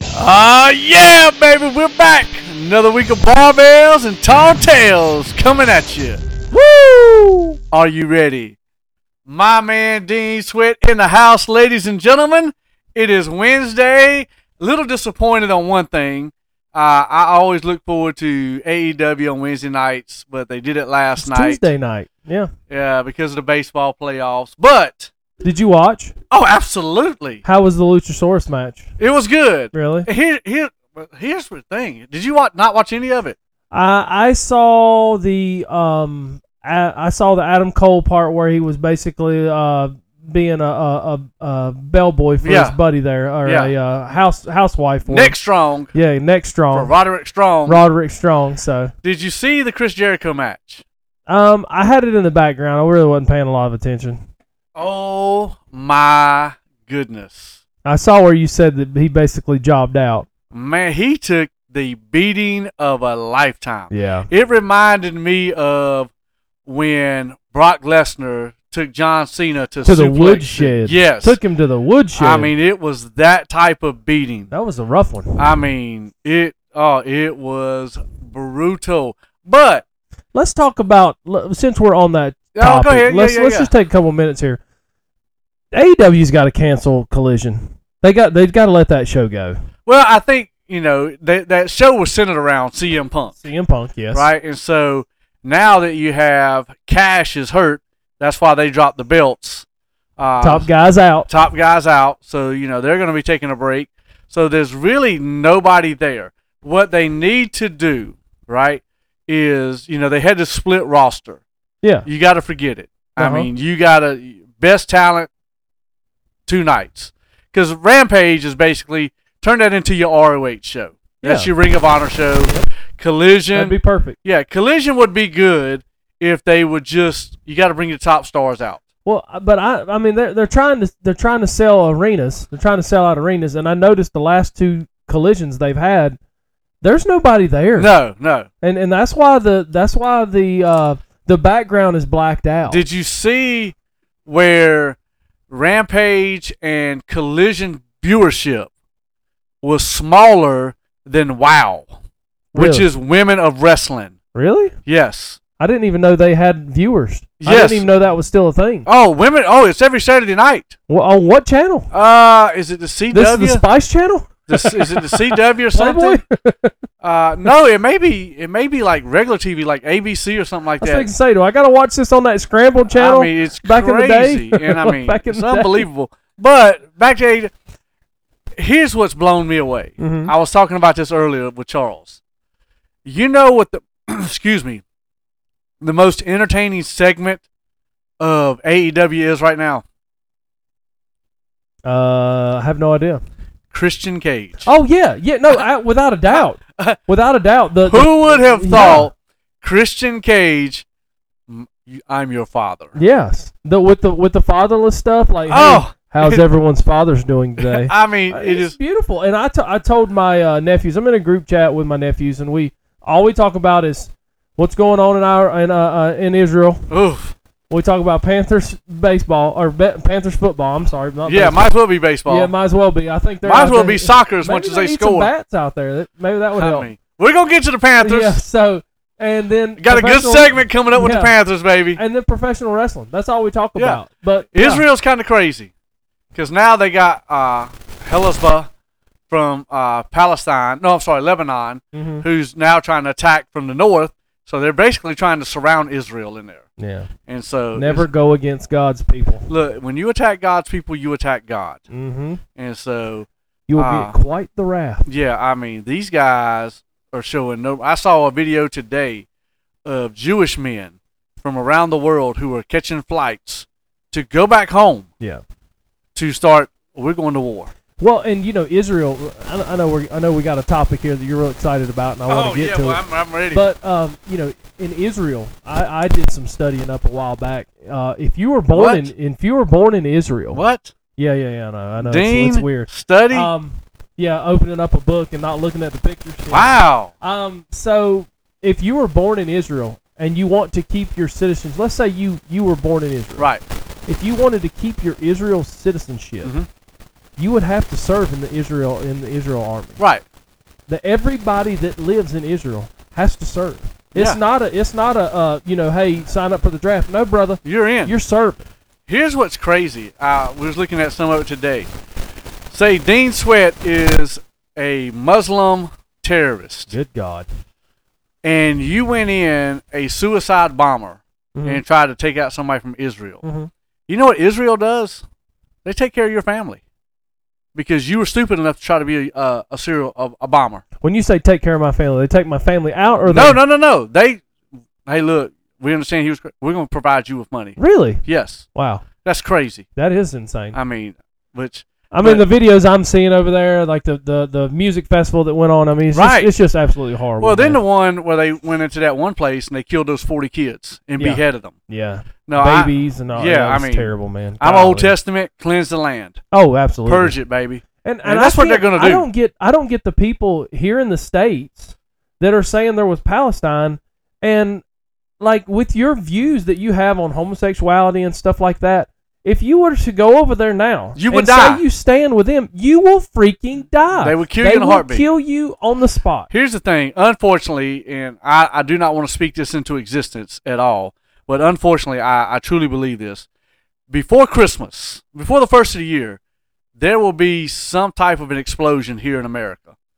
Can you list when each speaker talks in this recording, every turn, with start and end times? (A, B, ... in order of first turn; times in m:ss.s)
0:00.1-0:06.2 A
0:06.5-0:07.6 B
0:07.7-0:08.6 A
0:09.3-0:21.6 A
0:21.2-0:22.5 B
0:22.7-0:25.1 A
0:25.4-0:26.1 B
0:26.3-0:27.4 A
0:27.4-0:28.9 B
0:29.0-0:33.4 A
0:29.7-0:30.1 B
0:33.7-0:45.3 B
0:42.4-0:42.8 A
0:43.4-0:43.7 A
0:45.1-0:45.9 A
0:45.9-0:46.9 B
0:46.7-0:47.8 A
0:47.7-0:48.9 B
0:49.0-0:50.8 A
0:51.3-0:54.2 B
0:54.8-0:57.6 A
0:57.8-1:00.3 B
1:00.5-1:06.1 A
1:03.9-1:04.3 B
1:06.7-1:11.4 A
1:09.8-1:12.5 B
1:12.2-1:14.5 A
1:14.5-1:15.5 B
1:15.4-1:19.8 A
1:20.3-1:24.6 B
1:22.6-1:23.7 A
1:25.7-1:29.6 B
1:29.8-1:33.3 A
1:33.4-1:34.3 B
1:34.1-1:39.6 A
1:40.2-1:40.7 A
1:40.4-1:41.3 B
1:41.3-1:51.4 A
1:52.0-1:55.3 A
1:53.2-1:53.5 B
1:56.5-2:08.8 A
2:01.2-2:01.5 B
2:03.5-2:04.2 B
2:09.0-2:16.2 B
2:16.8-2:17.9 B
2:17.8-2:18.5 A
2:18.6-2:22.8 B
2:22.7-2:23.8 A
2:24.2-2:25.0 A
2:25.5-2:28.7 A
2:29.6-2:31.9 A
2:32.5-2:34.2 A
2:32.6-2:32.9 B
2:34.3-2:34.7 B
2:34.9-2:35.4 A
2:35.6-2:38.9 B
2:37.4-2:37.9 A
2:38.8-2:40.8 A
2:40.9-2:41.9 B
2:41.9-2:43.6 A
2:43.1-2:46.8 B
2:44.5-2:46.2 A
2:47.0-2:51.1 A
2:50.8-2:55.9 B
2:52.9-2:57.5 A
2:58.6-3:02.2 A
3:00.0-3:00.3 B
3:03.0-3:04.8 A
3:05.8-3:07.4 A
3:08.2-3:09.8 A
3:11.8-3:13.2 B
3:13.7-3:14.7 A
3:14.6-3:19.1 B
3:16.3-3:17.0 A
3:17.8-3:20.8 A
3:21.5-3:22.9 A
3:23.0-3:36.8 B
3:25.5-3:26.4 A
3:27.6-3:28.8 A
3:36.9-3:37.3 A
3:37.7-3:41.7 B
3:41.2-3:42.5 A
3:42.3-3:46.9 B
3:43.4-3:45.3 A
3:46.6-3:48.4 A
3:48.0-3:51.3 B
3:49.8-3:52.0 A
3:52.0-3:54.8 B
3:53.8-3:54.0 A
3:54.5-3:55.7 A
3:56.3-3:58.7 A
3:59.3-4:06.6 A
4:01.9-4:02.2 B
4:06.8-4:07.1 B
4:07.3-4:08.1 A
4:07.7-4:09.5 B
4:09.5-4:11.8 A
4:11.9-4:12.4 B
4:12.6-4:14.1 A
4:13.7-4:15.1 B
4:15.1-4:19.2 A
4:19.8-4:25.1 A
4:26.1-4:27.7 A
4:28.0-4:40.6 B
4:32.3-4:33.7 A
4:38.7-4:39.1 A
4:40.5-4:40.9 A
4:41.2-4:46.7 B
4:42.0-4:43.5 A
4:46.5-4:47.1 A
4:47.2-4:53.5 B
4:53.4-4:53.6 A
4:54.1-4:56.5 B
4:56.4-4:56.7 A
4:57.4-5:00.0 B
5:00.0-5:00.2 A
5:00.9-5:08.7 B
5:07.6-5:08.1 A
5:09.1-5:11.9 A
5:12.7-5:16.9 A
5:16.9-5:17.5 B
5:18.4-5:23.4 A
5:21.6-5:21.8 B
5:23.4-5:23.7 B
5:24.1-5:25.2 A
5:25.8-5:26.8 A
5:27.7-5:30.8 A
5:31.0-5:33.6 B
5:33.3-5:34.4 A
5:35.1-5:38.7 A
5:37.8-5:38.2 B
5:38.7-5:39.0 B
5:39.2-5:39.9 A
5:40.0-5:40.8 B
5:40.7-5:42.4 A
5:42.1-5:47.8 B
5:46.1-5:46.5 A
5:47.4-5:51.8 A
5:51.2-5:55.1 B
5:52.5-5:56.4 A
5:56.5-5:57.4 B
5:57.1-5:59.2 A
5:58.0-6:04.8 B
6:05.4-6:16.5 B
6:11.1-6:11.8 A
6:14.2-6:15.2 A
6:16.5-6:23.5 A
6:24.1-6:26.4 A
6:27.0-6:30.0 A